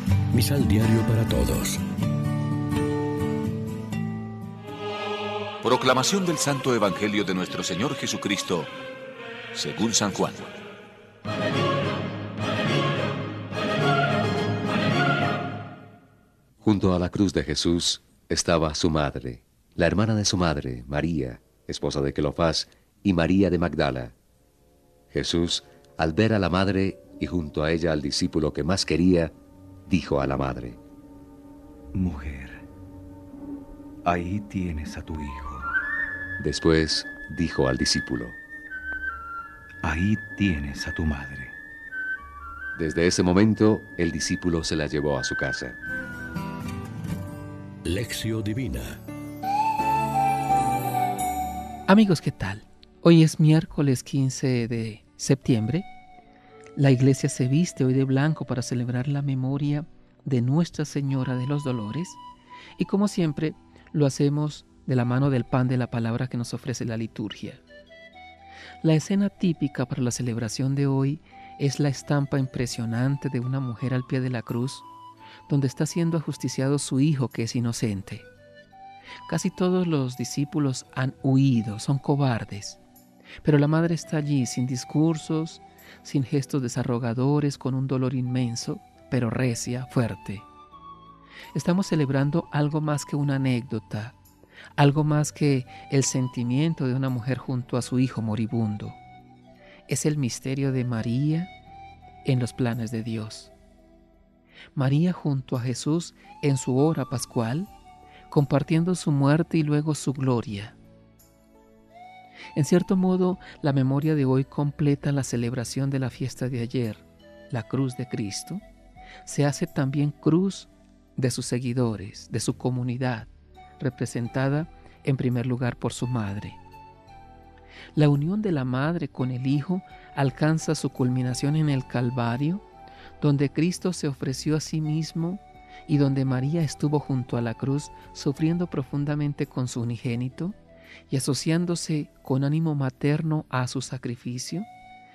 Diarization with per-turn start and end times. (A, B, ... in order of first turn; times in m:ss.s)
0:00.3-0:01.8 A
0:05.6-0:08.7 B
0:09.5-0:10.5 B
0:16.6-0:24.2 C
0:25.1-0:29.3 C
0:29.9-0:30.8 C
0:31.9-0:32.6 D
0:34.0-0:35.7 D
0:36.4-0:38.4 C
0:39.8-0:41.5 D
0:42.8-0:45.8 C
0:47.8-0:49.0 A
0:51.9-0:55.9 E
0:56.8-1:02.2 E
1:02.8-1:07.6 E
1:08.8-1:14.9 E
1:15.5-1:18.3 E
1:19.3-1:22.8 E
1:23.4-1:30.5 E
1:31.5-1:34.2 E
1:34.8-1:39.0 E
1:39.9-1:41.5 E
1:42.2-1:43.5 E
1:44.7-1:47.7 E
1:48.3-1:50.8 E
1:52.5-1:58.6 E
1:59.2-2:06.6 E
2:07.9-2:12.6 E
2:13.2-2:20.6 E
2:21.1-2:24.7 E